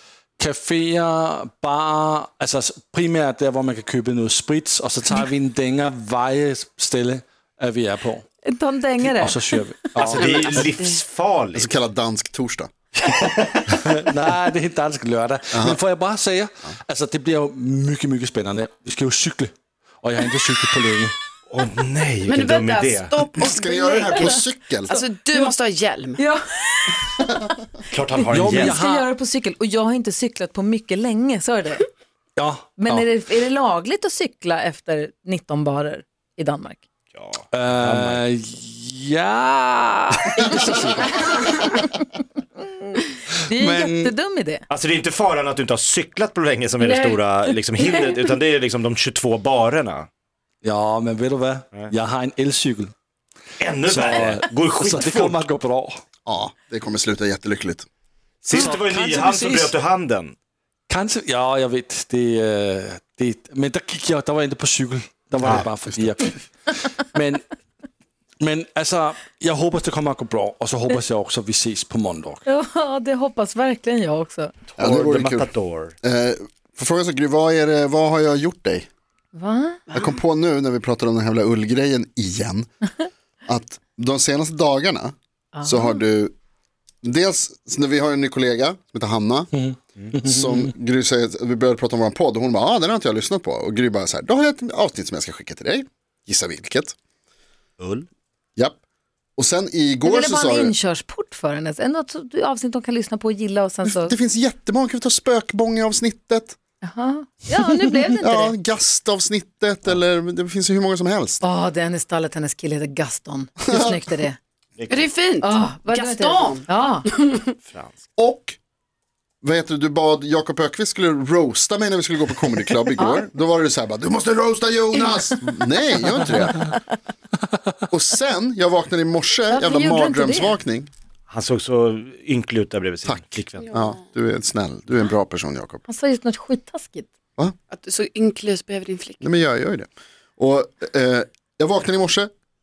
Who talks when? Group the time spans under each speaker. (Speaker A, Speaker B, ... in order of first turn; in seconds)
Speaker A: 0.4-8.2, 9.0-10.7, 13.7-21.1, 28.3-29.1, 32.4-33.0, 37.5-41.7, 43.5-44.1, 50.6-52.9, 53.9-56.0, 58.5-59.8, 60.9-67.4, 68.4-72.4, 89.5-90.7
Speaker B: 8.4-9.9, 26.2-27.3, 28.2-31.8, 32.8-36.8, 41.6-42.0, 42.8-44.6, 72.5-74.5, 79.3-79.8, 85.5-86.0, 100.0-104.1, 106.8-108.5, 111.4-114.4, 115.4-117.1, 123.0-123.2, 129.5-130.6, 135.9-137.1
Speaker C: 9.9-11.7, 13.0-13.7, 21.5-23.2, 27.9-28.8, 37.1-38.2, 44.7-50.1, 53.6-55.4, 58.4-60.3, 74.7-75.9, 97.8-98.1, 114.8-115.1, 117.6-118.0, 131.3-133.7
Speaker D: 11.5-12.7, 15.5-15.8, 23.4-24.9, 56.2-57.8, 74.8-75.5, 76.0-78.9, 79.9-82.7, 83.5-85.1, 85.6-86.3, 87.0-89.5, 90.2-96.9, 99.4-100.7, 103.8-106.5, 108.2-111.4, 113.7-114.0, 118.2-118.5, 119.4-126.7, 127.9-130.9, 133.0-135.8, 139.2-139.9, 140.4-142.3
Speaker E: 22.3-26.2, 46.8-47.1, 79.9-80.2, 114.9-116.6, 137.7-139.3